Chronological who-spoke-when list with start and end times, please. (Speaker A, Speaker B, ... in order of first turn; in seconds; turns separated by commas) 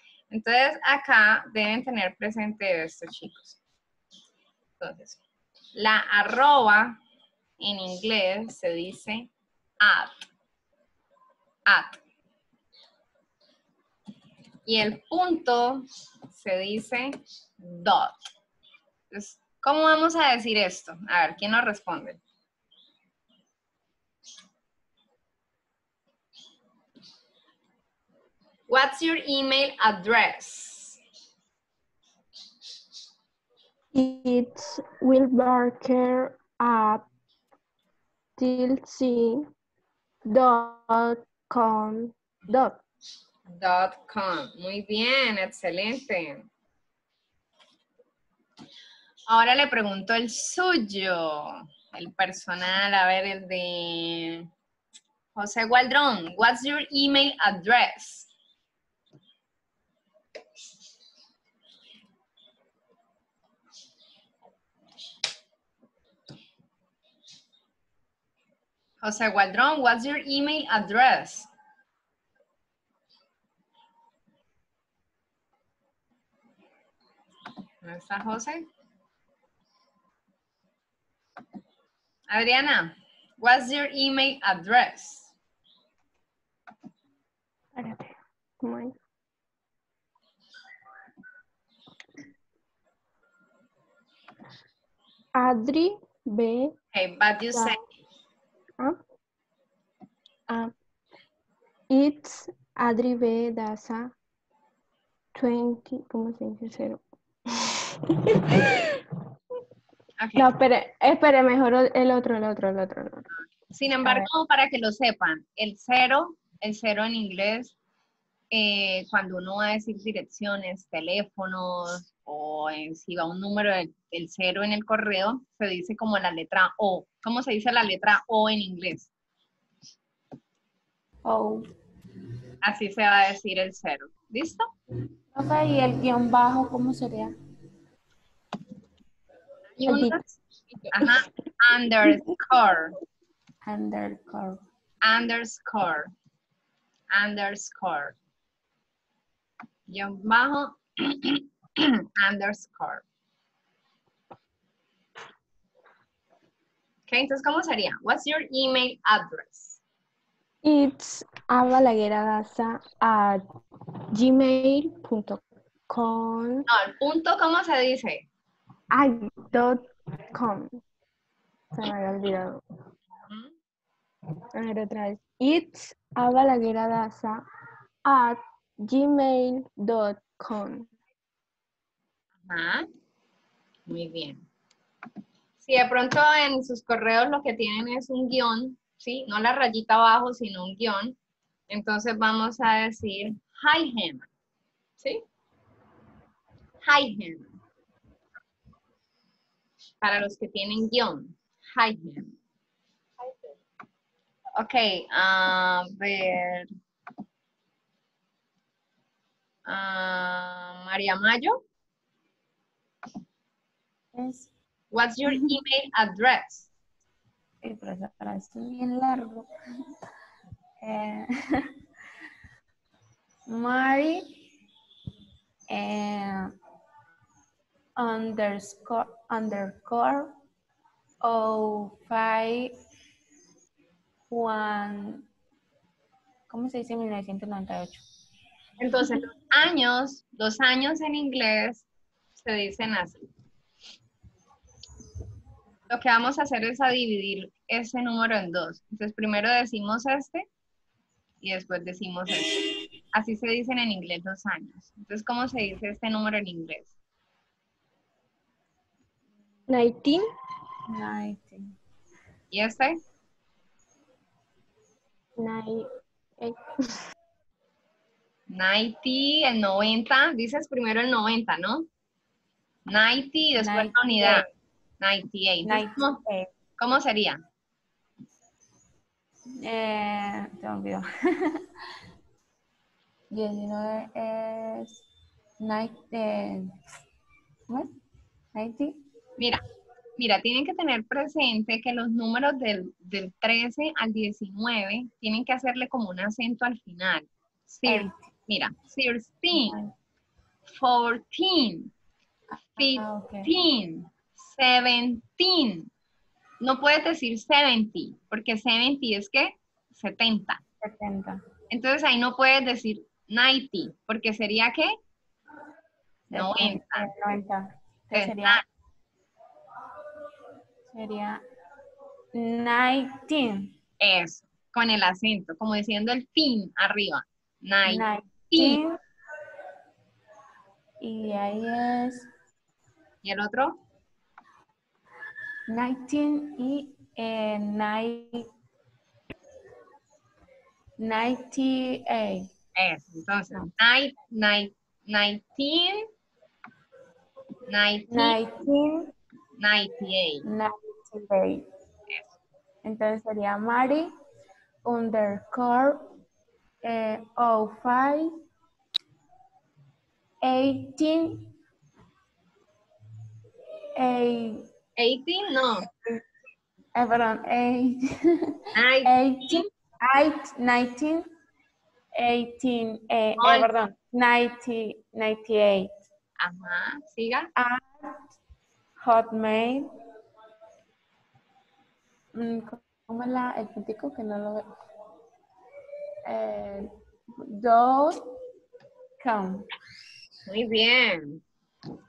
Speaker A: 0.3-3.6, Speaker A: 4.8-5.2, Speaker A: 5.7-7.0, Speaker A: 7.6-10.3, Speaker A: 11.7-12.0, Speaker A: 14.7-18.2, Speaker A: 19.1-22.2, Speaker A: 28.7-31.0, Speaker B: 33.9-37.0, Speaker B: 38.4-39.5, Speaker B: 40.3-42.8, Speaker A: 43.5-46.5, Speaker A: 49.3-54.5, Speaker A: 55.3-58.3, Speaker A: 69.0-71.5, Speaker A: 77.8-78.6, Speaker A: 82.3-85.3, Speaker B: 87.7-88.9, Speaker B: 95.3-96.7, Speaker A: 96.9-97.8, Speaker B: 101.9-104.1, Speaker B: 105.3-109.0, Speaker A: 110.2-110.5, Speaker B: 110.3-113.2, Speaker A: 113.6-117.7, Speaker A: 118.5-129.1, Speaker C: 131.2-131.7, Speaker A: 132.6-134.7, Speaker C: 135.3-137.3, Speaker A: 139.8-140.4, Speaker B: 139.8-140.2, Speaker A: 140.9-142.9, Speaker C: 143.6-144.6, Speaker A: 145.0-146.1, Speaker A: 147.1-148.2, Speaker A: 149.9-153.0, Speaker A: 157.1-159.8, Speaker B: 160.6-163.4, Speaker B: 164.1-166.7, Speaker A: 166.7-168.2, Speaker B: 168.9-170.8, Speaker B: 171.7-172.6, Speaker A: 173.3-173.5, Speaker B: 174.5-177.4, Speaker B: 178.1-180.9, Speaker A: 182.4-182.8, Speaker A: 183.9-184.4, Speaker A: 185.6-191.2, Speaker A: 191.7-194.3, Speaker A: 196.8-197.5, Speaker A: 200.0-202.3, Speaker A: 204.6-206.7, Speaker A: 209.7-211.6, Speaker C: 214.1-214.5, Speaker A: 214.9-216.7, Speaker C: 215.3-215.5, Speaker C: 217.6-219.5, Speaker C: 220.8-221.7, Speaker C: 223.5-224.4, Speaker C: 225.7-226.5, Speaker C: 228.0-230.4, Speaker C: 231.2-232.7, Speaker C: 234.3-235.3, Speaker C: 236.5-238.0, Speaker A: 238.8-241.8, Speaker A: 242.4-243.2, Speaker A: 245.9-250.5, Speaker A: 251.4-256.9, Speaker B: 259.7-260.2, Speaker C: 260.9-261.7, Speaker A: 262.5-263.0, Speaker B: 265.4-265.9, Speaker B: 266.4-267.0, Speaker A: 268.5-271.9, Speaker A: 272.9-274.4, Speaker C: 273.6-274.5, Speaker A: 275.0-276.2, Speaker C: 275.6-276.5, Speaker A: 276.8-277.4, Speaker C: 279.6-281.6, Speaker C: 283.3-285.0, Speaker C: 285.6-286.7, Speaker C: 288.5-289.0, Speaker A: 289.4-289.6, Speaker A: 290.2-299.8, Speaker C: 297.8-298.2, Speaker C: 299.5-299.9, Speaker A: 300.7-301.9, Speaker C: 302.5-303.5, Speaker A: 302.8-305.9, Speaker A: 306.6-310.6, Speaker C: 310.8-311.4, Speaker A: 311.7-314.9, Speaker C: 316.3-318.6, Speaker A: 316.3-317.1, Speaker A: 318.1-318.6, Speaker C: 320.9-321.4, Speaker C: 322.3-323.7, Speaker A: 324.0-328.8, Speaker C: 327.8-329.0, Speaker C: 331.0-332.3, Speaker A: 333.2-333.8, Speaker C: 335.7-338.5, Speaker C: 341.0-342.5, Speaker A: 342.8-346.1, Speaker A: 347.7-348.4, Speaker C: 348.1-349.1, Speaker A: 349.6-350.4, Speaker C: 350.4-351.6, Speaker C: 352.8-354.1, Speaker C: 354.8-356.1, Speaker C: 356.8-358.3, Speaker C: 360.4-361.5, Speaker C: 363.9-364.7, Speaker A: 365.0-365.9, Speaker C: 366.9-371.3, Speaker A: 368.8-369.6, Speaker C: 372.1-375.9, Speaker A: 373.4-373.7, Speaker A: 376.4-377.5, Speaker C: 377.6-378.1, Speaker C: 379.0-379.9, Speaker C: 382.3-384.7, Speaker C: 386.2-388.3, Speaker C: 389.2-389.7, Speaker A: 390.5-391.4